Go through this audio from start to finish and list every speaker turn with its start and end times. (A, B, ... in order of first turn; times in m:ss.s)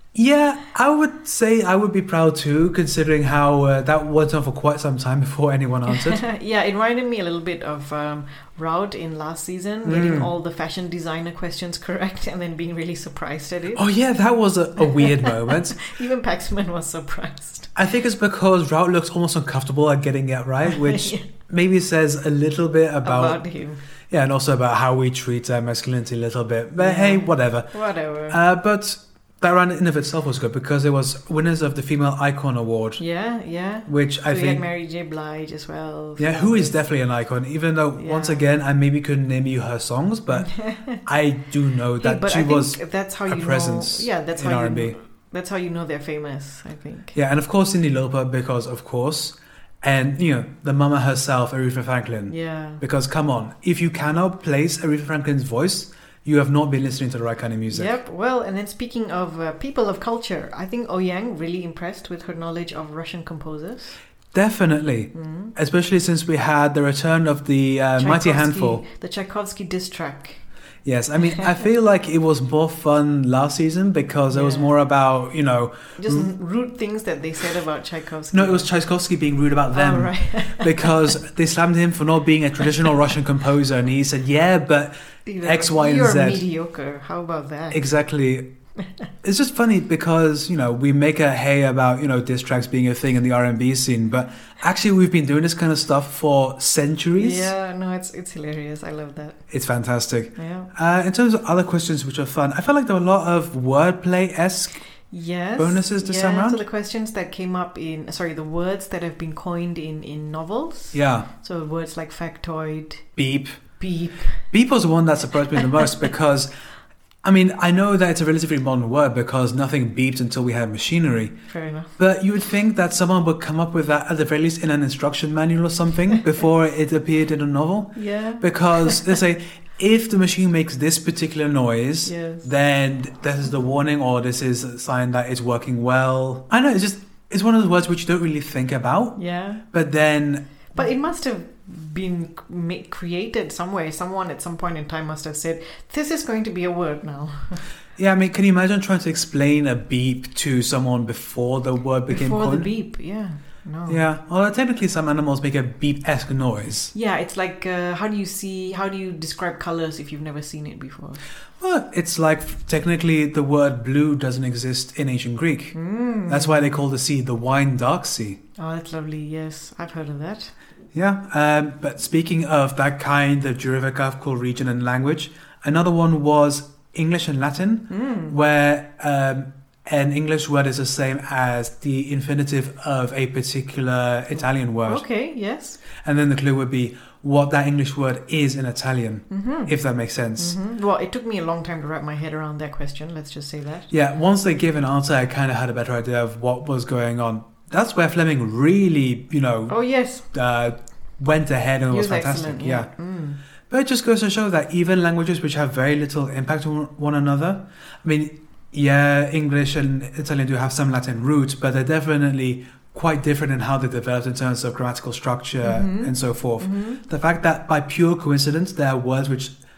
0:00.2-0:06.2 A
0:05.9-0:13.8 B
0:09.8-0:10.3 A
0:13.8-0:15.8 A
0:14.8-0:17.7 B
0:17.8-0:23.4 A
0:20.6-0:21.3 B
0:23.0-0:23.8 B
0:24.1-0:27.7 A
0:26.8-0:28.4 B
0:28.3-0:33.0 A
0:33.0-0:36.8 B
0:33.9-0:34.6 A
0:36.2-0:40.5 A
0:38.0-0:38.4 B
0:40.3-0:41.0 B
0:41.0-0:45.0 A
0:42.0-0:47.2 B
0:47.2-0:57.9 A
0:52.3-0:52.8 B
0:57.7-1:04.0 B
1:04.3-1:08.8 A
1:05.1-1:05.5 B
1:08.0-1:10.4 B
1:10.8-1:16.3 A
1:14.3-1:14.7 B
1:16.0-1:18.7 B
1:18.3-1:26.4 A
1:19.7-1:21.2 B
1:25.3-1:27.8 B
1:27.7-1:28.5 A
1:29.2-1:37.5 A
1:37.2-1:39.4 B
1:39.5-1:44.8 A
1:40.4-1:40.7 B
1:45.1-1:53.1 B
1:45.6-1:46.6 A
1:50.9-1:51.3 A
1:53.2-1:53.6 A
1:53.8-1:54.5 B
1:54.5-1:56.5 A
1:55.6-1:55.8 B
1:57.2-2:01.4 A
2:01.5-2:01.9 B
2:02.0-2:19.2 A
2:08.0-2:09.2 B
2:12.0-2:12.5 B
2:19.2-2:19.6 B
2:19.7-2:20.6 A
2:20.7-2:27.6 B
2:28.0-2:32.7 A
2:32.1-2:34.0 B
2:33.9-2:36.9 A
2:36.9-2:41.2 B
2:41.6-2:45.8 A
2:45.7-2:46.8 B
2:46.3-2:48.4 A
2:48.6-2:50.5 B
2:50.9-3:05.0 A
2:57.9-2:58.4 B
3:04.8-3:05.8 B
3:06.0-3:10.6 A
3:09.3-3:09.8 B
3:10.4-3:13.9 B
3:13.9-3:19.8 A
3:19.7-3:20.3 B
3:20.3-3:22.9 A
3:21.9-3:23.4 B
3:23.7-3:39.6 A
3:35.6-3:37.0 B